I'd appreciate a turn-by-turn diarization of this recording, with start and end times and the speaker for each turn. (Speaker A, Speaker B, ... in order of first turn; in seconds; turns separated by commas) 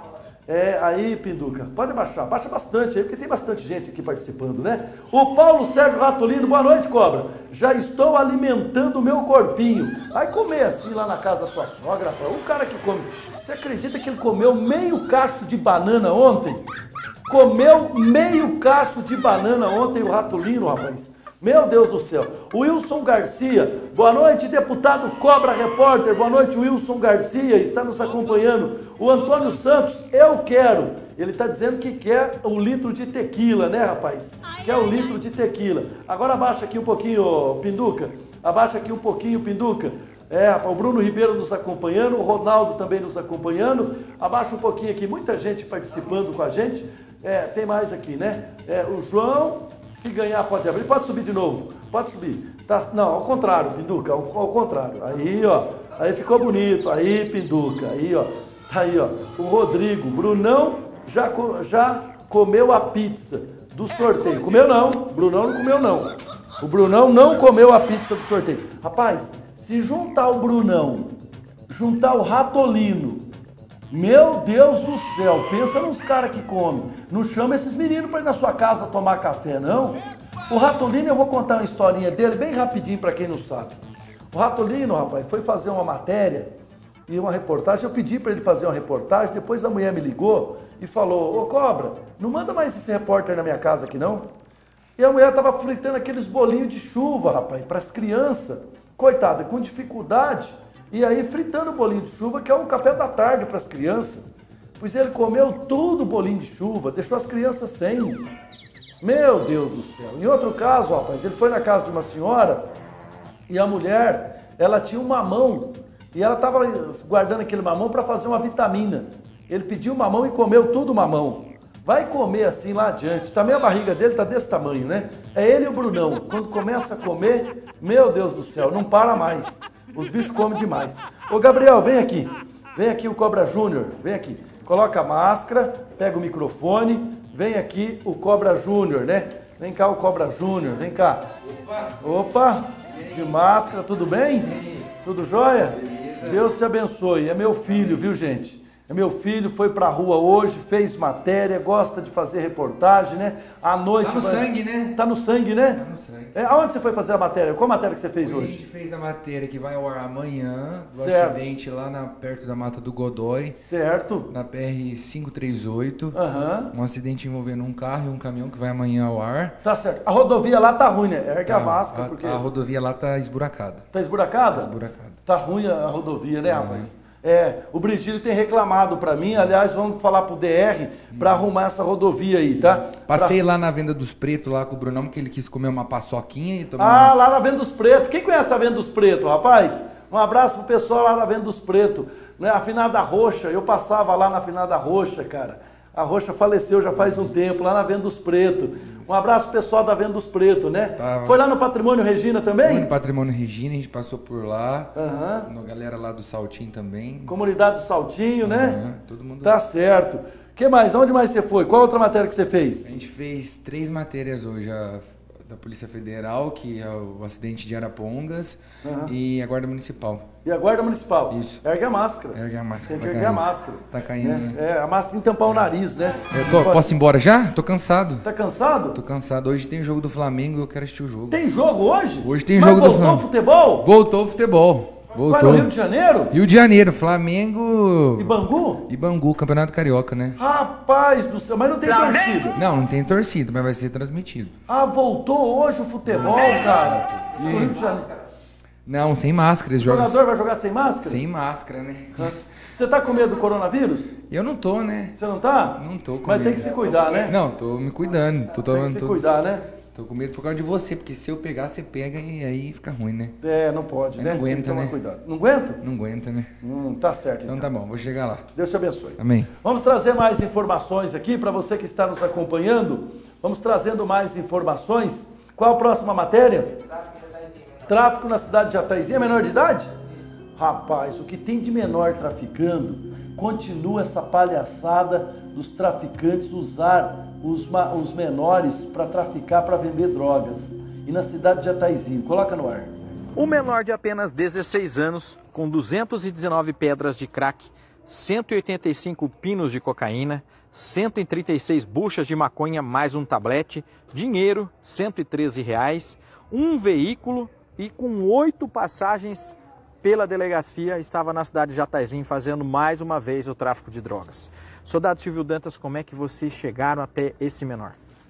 Speaker A: 0.5-16.6, Speaker A: 17.3-71.2, Speaker A: 71.7-73.3, Speaker A: 73.9-83.8, Speaker A: 84.3-86.5, Speaker A: 87.1-94.3, Speaker A: 95.0-104.2, Speaker A: 104.8-108.3, Speaker A: 109.0-112.7, Speaker A: 113.5-141.2, Speaker B: 141.4-142.1, Speaker A: 142.0-155.8, Speaker B: 142.9-143.4, Speaker B: 144.4-144.9, Speaker B: 145.7-146.5, Speaker B: 147.7-148.0, Speaker B: 154.0-155.0, Speaker B: 155.7-156.6, Speaker A: 156.3-158.6, Speaker B: 158.2-163.6, Speaker A: 160.9-161.4, Speaker A: 163.6-164.3, Speaker B: 164.3-166.2, Speaker A: 166.1-166.7, Speaker B: 166.7-169.6, Speaker A: 169.6-172.4, Speaker B: 171.4-173.9, Speaker A: 173.9-174.7, Speaker B: 174.5-175.2, Speaker A: 175.2-183.4, Speaker B: 176.4-176.9, Speaker B: 181.1-181.5, Speaker B: 182.9-187.1, Speaker A: 186.8-202.9, Speaker B: 197.0-197.3, Speaker B: 201.0-201.4, Speaker B: 202.6-207.3, Speaker A: 204.9-205.5, Speaker A: 207.3-208.8, Speaker B: 208.4-209.6, Speaker A: 209.4-212.9, Speaker B: 212.8-220.3, Speaker A: 218.8-219.1, Speaker A: 220.4-222.4, Speaker B: 221.3-221.6, Speaker B: 222.3-224.6, Speaker A: 222.9-226.9, Speaker B: 226.3-228.3, Speaker A: 228.2-229.0, Speaker B: 228.9-231.4, Speaker A: 231.3-233.8, Speaker B: 232.2-233.2, Speaker B: 233.8-235.7, Speaker A: 235.3-236.3, Speaker B: 236.3-240.4, Speaker A: 238.2-238.8, Speaker A: 240.4-242.6, Speaker B: 242.5-244.6, Speaker A: 244.7-248.1, Speaker B: 246.1-246.6, Speaker B: 247.1-247.8, Speaker B: 248.8-250.2, Speaker A: 249.8-251.2, Speaker B: 251.0-252.4, Speaker A: 252.2-254.1, Speaker B: 254.3-255.2, Speaker A: 255.2-257.3, Speaker B: 255.7-259.4, Speaker A: 258.7-259.6, Speaker B: 259.9-263.4, Speaker A: 263.4-265.8, Speaker B: 264.1-264.9, Speaker B: 265.8-266.6, Speaker A: 266.6-267.6, Speaker B: 267.4-268.5, Speaker A: 268.5-276.8, Speaker B: 269.2-269.5, Speaker A: 277.9-279.9, Speaker A: 280.6-292.9, Speaker C: 293.4-318.0